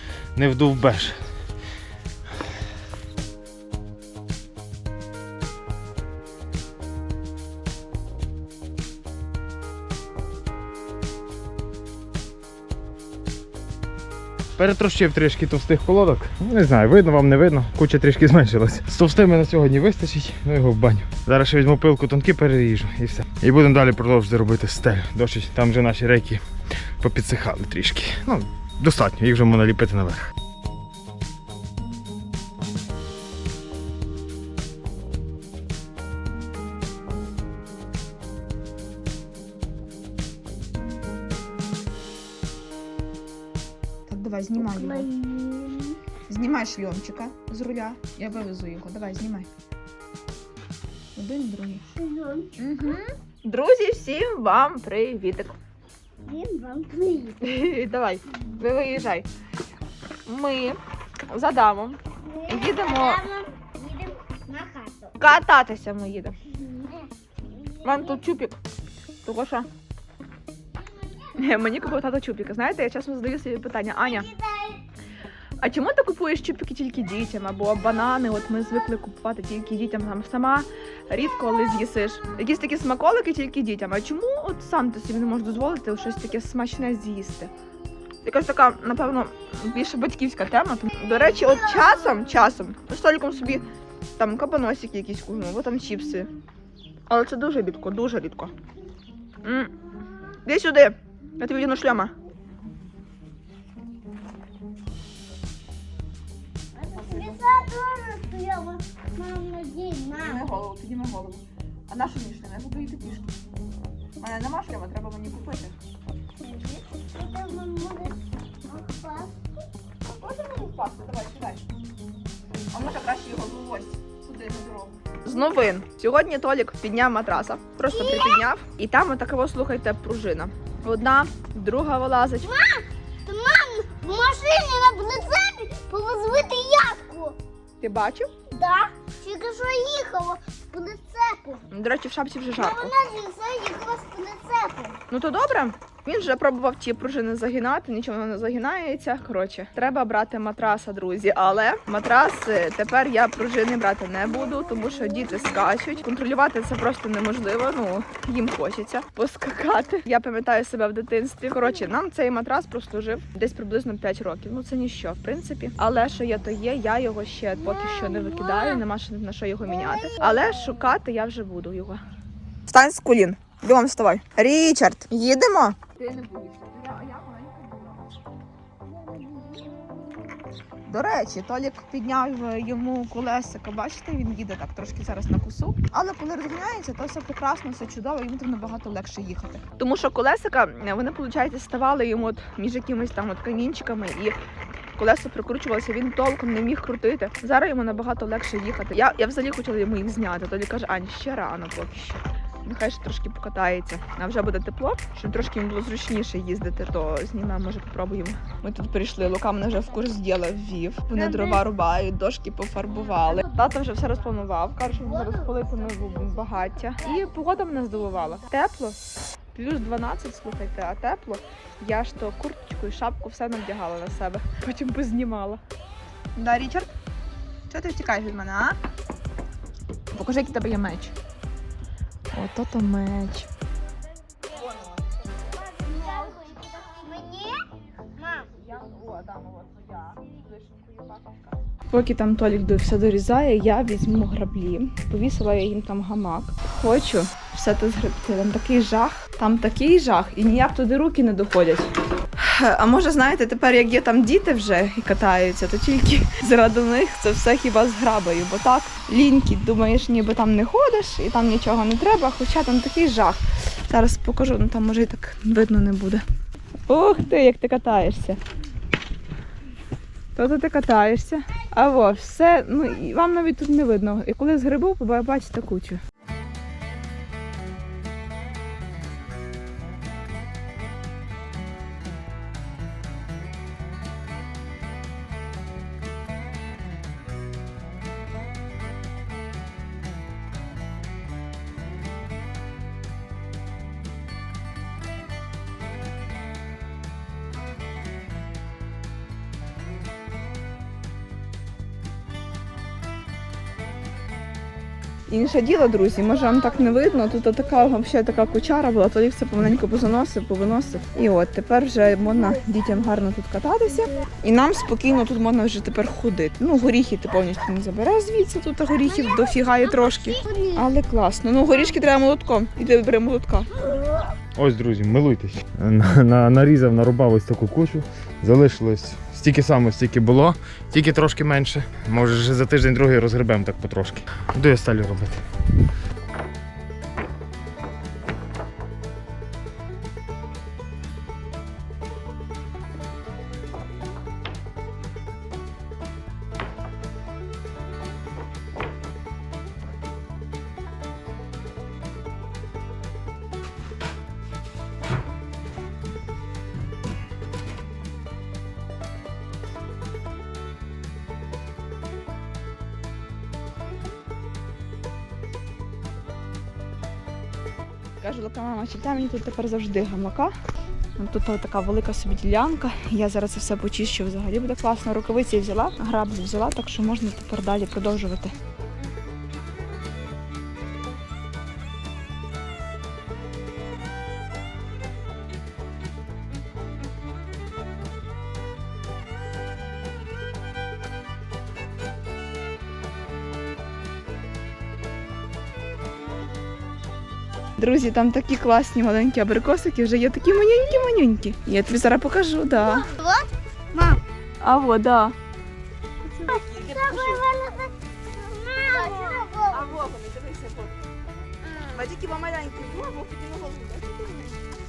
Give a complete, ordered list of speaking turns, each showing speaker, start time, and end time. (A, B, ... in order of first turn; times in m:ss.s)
0:00.4-0:01.2 A
0:14.6-0:26.4 A
0:27.0-0:30.3 A
0:44.1-0:45.1 B
0:44.6-0:46.0 C
0:46.3-0:49.5 B
0:51.2-0:51.9 B
0:52.0-0:52.6 C
0:52.6-0:55.5 B
0:56.2-0:57.4 C
0:57.4-0:59.2 B
1:00.2-1:03.2 B
1:02.2-1:05.2 C
1:05.2-1:06.4 B
1:06.5-1:07.1 C
1:07.6-1:07.9 C
1:07.8-1:08.6 B
1:09.2-1:09.7 B
1:11.4-1:14.3 B
1:14.2-1:14.8 C
1:15.6-1:27.5 B
1:28.2-1:33.6 B
1:34.2-1:36.3 B
1:37.1-1:38.5 B
1:39.4-1:39.7 B
1:40.4-1:42.1 B
1:46.8-1:50.4 C
1:46.9-1:47.4 B
1:50.2-1:53.3 B
1:54.2-1:55.8 B
1:56.4-1:59.4 C
2:00.0-2:01.6 B
2:02.7-2:12.6 B
2:07.9-2:08.4 C
2:12.4-2:17.4 C
2:17.8-2:18.3 B
2:18.5-2:21.6 C
2:21.7-2:22.9 B
2:22.5-2:25.0 C
2:25.1-2:52.0 B
2:52.7-2:58.0 B
2:58.9-2:59.7 C
3:00.9-3:14.4 B
3:15.0-3:39.0 B
3:31.2-3:31.6 C
3:39.6-3:45.6 B
3:46.4-3:46.9 B
3:47.7-3:48.8 B
3:50.1-3:51.1 B
3:52.3-3:53.5 B
3:54.5-3:55.1 B
3:55.6-3:58.5 C
3:58.5-4:26.2 B
4:26.9-4:28.4 B
4:30.4-4:36.0 B
5:05.3-5:23.7 B
5:19.1-5:20.8 C
5:23.8-5:24.2 C
5:24.6-5:35.4 A
6:08.2-6:10.5 B
6:11.2-6:18.5 B
6:37.8-6:43.1 B
6:42.9-6:44.2 C
6:44.6-6:45.3 B
6:46.3-6:47.4 B
6:46.4-6:49.9 C
6:49.0-6:50.9 B
6:51.6-6:54.7 B